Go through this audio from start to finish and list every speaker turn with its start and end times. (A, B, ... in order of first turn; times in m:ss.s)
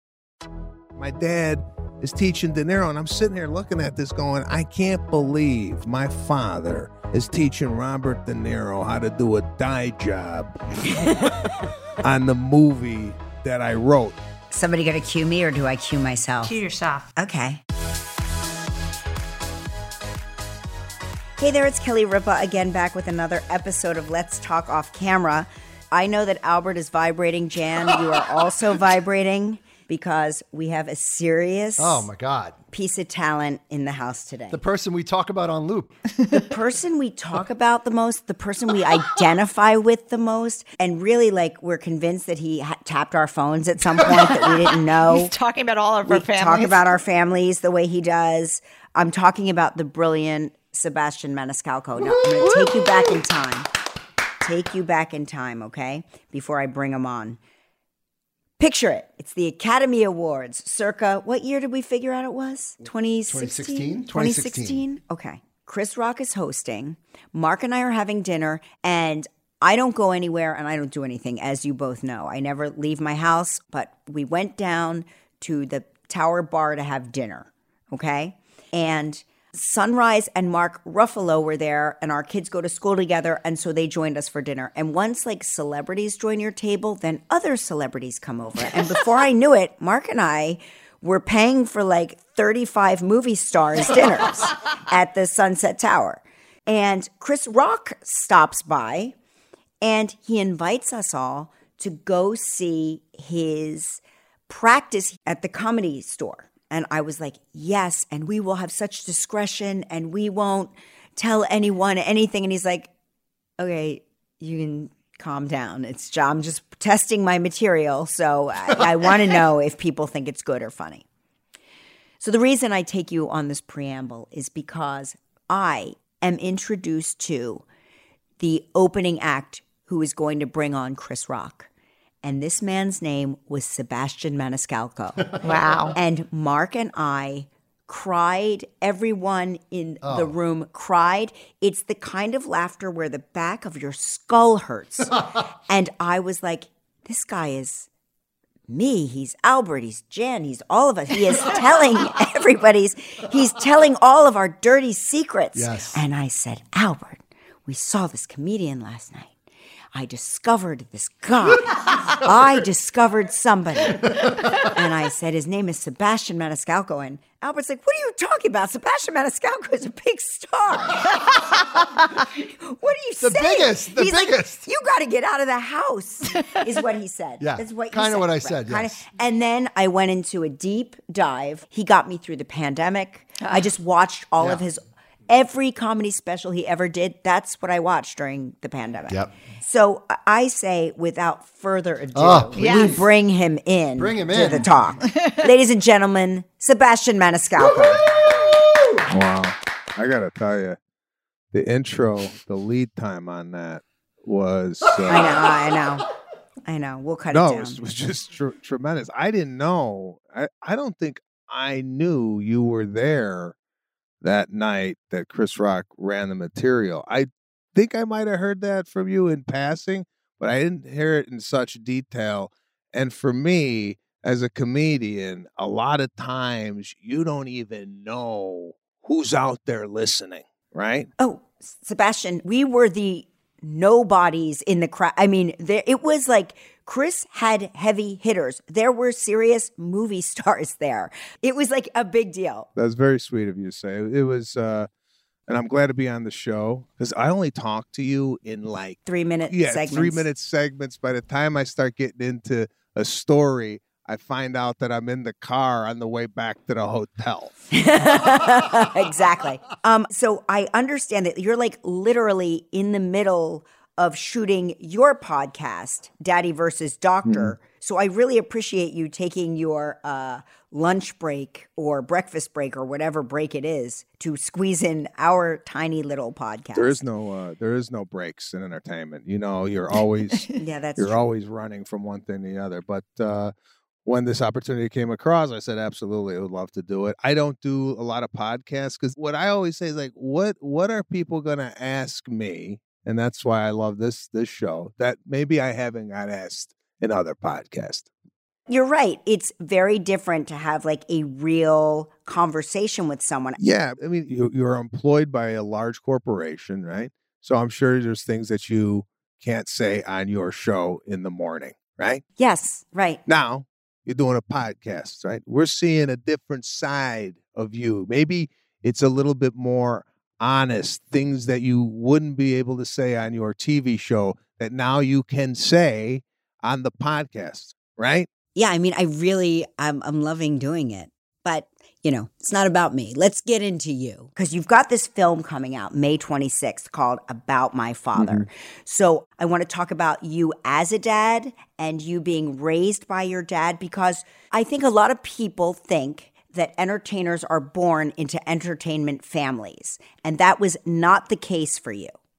0:01.0-0:10.6 A
0:10.8-0:11.7 B
0:12.0-0:14.2 A
0:14.5-0:16.6 B
0:16.5-0:17.0 C
0:17.1-0:17.6 B
0:21.4-0:32.1 B
0:31.8-0:32.6 D
0:32.7-0:34.6 B
0:34.5-0:36.0 D
0:36.3-0:45.3 B
0:44.1-0:46.8 C
0:46.1-0:53.7 B
0:54.4-0:57.4 B
0:58.6-1:39.2 B
1:03.3-1:04.8 D
1:39.8-1:52.9 B
1:53.6-2:01.0 B
2:02.2-2:07.6 B
2:08.4-2:11.7 B
2:12.2-2:15.3 B
2:15.4-2:16.0 C
2:15.6-2:15.9 D
2:16.0-2:27.9 B
2:20.0-2:20.3 D
2:28.7-2:39.3 B
2:35.6-2:36.0 D
2:39.9-2:51.2 B
2:44.2-2:44.6 D
2:52.4-3:18.1 B
2:53.2-2:54.6 D
2:57.4-2:59.0 D
3:12.2-3:13.0 D
3:12.6-3:13.0 C
3:14.0-3:14.7 D
3:18.1-3:19.0 D
3:19.1-3:20.8 A
3:21.5-3:25.5 A
3:25.1-3:26.1 B
3:26.7-3:27.8 B
3:27.3-3:33.6 A
3:34.2-3:51.1 A
3:51.2-4:02.7 B
4:02.8-4:04.9 A
4:05.5-4:17.6 A
4:09.1-4:10.3 B
4:17.7-4:37.0 B
4:27.2-4:27.5 A
4:36.8-4:43.5 A
4:40.6-4:41.2 B
4:44.0-4:58.1 A
4:58.7-5:03.6 B
5:03.6-5:12.2 A
5:12.4-5:13.2 B
5:13.3-5:28.3 A
5:28.6-5:52.1 B
5:38.2-5:38.5 A